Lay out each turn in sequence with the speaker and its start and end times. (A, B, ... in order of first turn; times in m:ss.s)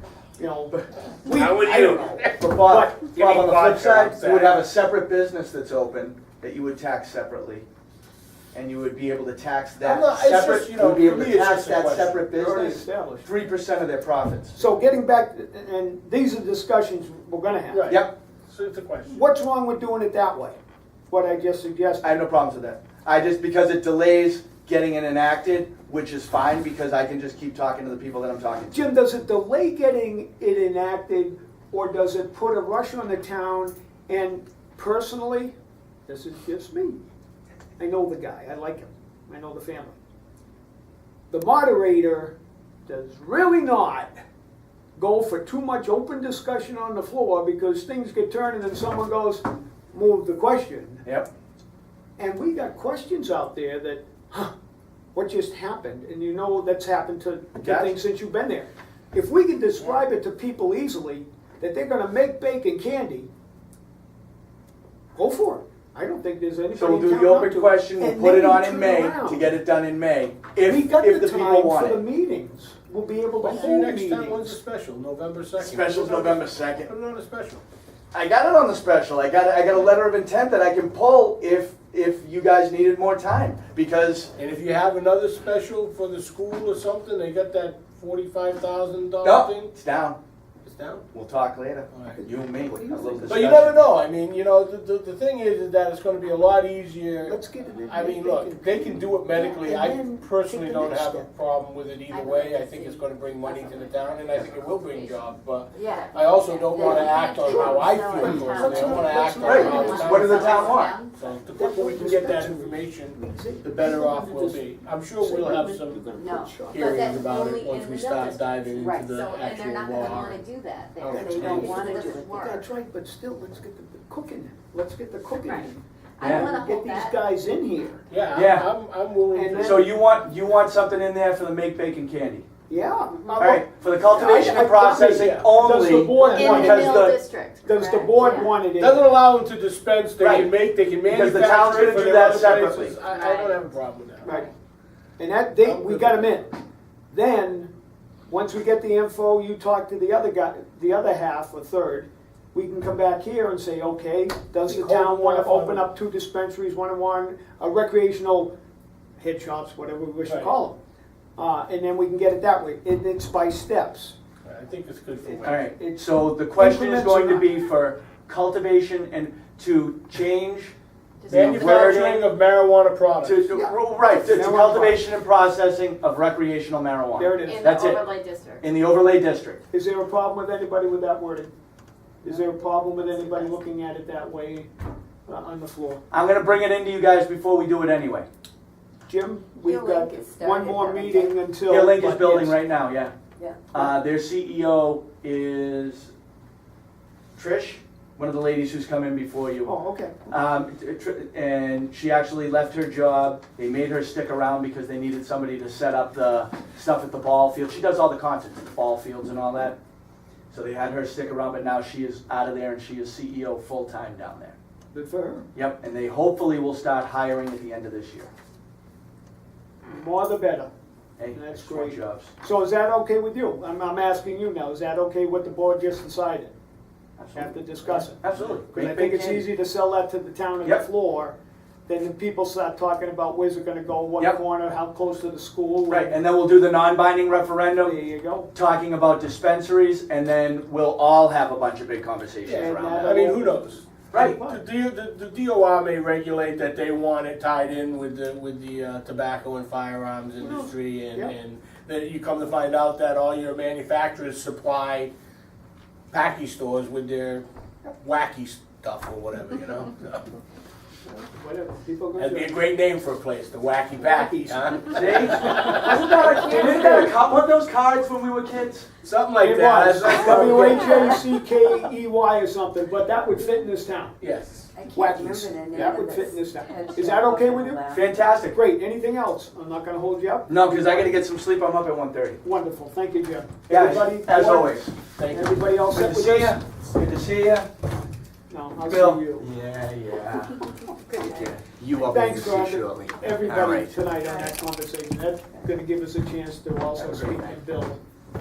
0:00.4-0:03.1 A
0:01.3-0:02.5 B
0:02.4-0:07.7 C
0:03.1-0:04.6 B
0:08.5-0:14.7 C
0:09.8-0:12.2 B
0:12.3-0:13.3 A
0:14.6-0:18.0 A
0:17.7-0:19.2 B
0:17.9-0:18.1 C
0:19.1-0:20.6 A
0:21.1-0:22.1 A
0:22.0-0:28.9 C
0:28.7-0:35.6 A
0:36.1-0:37.0 A
0:37.8-0:40.0 A
0:41.3-0:42.4 A
0:42.9-0:44.2 A
0:45.0-0:51.0 A
0:52.2-0:54.5 A
0:55.2-1:03.3 A
0:57.6-0:58.0 C
1:05.2-1:09.6 A
1:06.7-1:12.0 C
1:10.7-1:14.6 A
1:13.4-1:17.6 B
1:15.6-1:16.9 C
1:18.1-1:24.3 C
1:24.4-1:29.7 B
1:29.2-1:30.2 C
1:30.6-1:31.1 B
1:31.1-1:33.9 C
1:32.1-1:33.5 A
1:33.3-1:56.0 B
1:37.3-1:41.3 A
1:42.1-1:51.2 D
1:46.8-1:50.7 A
1:49.4-1:51.0 C
1:51.6-1:54.7 A
1:55.2-1:56.9 A
1:56.2-2:02.6 D
1:56.7-2:00.4 B
2:01.0-2:02.0 B
2:01.1-2:08.0 A
2:05.4-2:07.2 D
2:06.2-2:06.5 C
2:08.1-2:09.9 B
2:08.3-2:08.7 C
2:09.3-2:09.9 A
2:09.6-2:12.5 C
2:12.7-2:17.1 A
2:13.4-2:17.2 C
2:15.2-2:15.5 B
2:16.3-2:16.6 B
2:16.3-2:18.6 D
2:17.6-2:19.1 A
2:18.8-2:24.5 B
2:20.2-2:20.5 C
2:21.0-2:23.0 C
2:23.0-2:23.6 D
2:24.2-2:24.5 A
2:25.2-2:26.6 A
2:25.6-2:26.3 B
2:27.1-2:27.7 A
2:28.3-2:38.5 A
2:34.7-2:35.9 B
2:39.2-2:40.8 A
2:40.3-2:40.6 B
2:41.4-2:44.2 A
2:44.4-2:45.7 B
2:45.3-2:47.5 A
2:45.4-2:50.7 C
2:51.2-2:51.7 D
2:51.3-2:53.4 B
2:51.3-2:52.3 C
2:53.2-2:58.1 C
2:53.5-2:55.0 A
2:57.2-2:57.8 A
2:57.4-2:58.6 D
2:58.6-2:59.6 C
2:59.7-3:01.5 A
3:02.2-3:04.7 A
3:02.3-3:03.6 D
3:05.3-3:06.0 A
3:06.1-3:08.3 C
3:09.1-3:12.6 A
3:09.6-3:11.4 D
3:11.7-3:13.1 C
3:13.4-3:13.6 D
3:13.7-3:16.1 C
3:17.4-3:19.7 C
3:19.6-3:20.3 A
3:20.3-3:29.8 C
3:30.5-3:34.6 C
3:34.9-3:35.5 A
3:35.6-3:38.3 C
3:39.8-3:40.7 A
3:41.2-3:42.3 C
3:41.3-3:46.5 A
3:47.2-3:49.5 C
3:47.4-3:51.4 A
3:51.9-3:56.2 A
3:55.9-3:58.0 C
3:57.8-3:58.5 A
3:58.5-4:03.2 C
4:02.4-4:15.1 B
4:02.5-4:04.6 A
4:04.1-4:04.4 C
4:10.4-4:11.4 A
4:16.1-4:17.5 B
4:18.0-4:20.3 B
4:21.2-4:22.6 A
4:22.2-4:25.9 B
4:24.9-4:28.9 C
4:25.2-4:27.1 A
4:29.0-4:31.2 B
4:29.4-4:34.2 A
4:30.8-4:31.2 D
4:34.2-4:34.7 B
4:34.7-4:38.0 D
4:34.9-4:37.8 A
4:37.9-4:38.6 C
4:38.5-4:41.2 A
4:40.5-4:42.4 C
4:42.4-4:46.6 A
4:43.7-4:45.0 C
4:45.2-4:45.6 B
4:45.9-4:47.7 C
4:48.5-4:49.5 A
4:48.9-4:54.0 C
4:51.1-4:51.5 D
4:52.1-4:58.0 A
4:54.2-4:54.5 D
4:57.0-4:57.7 C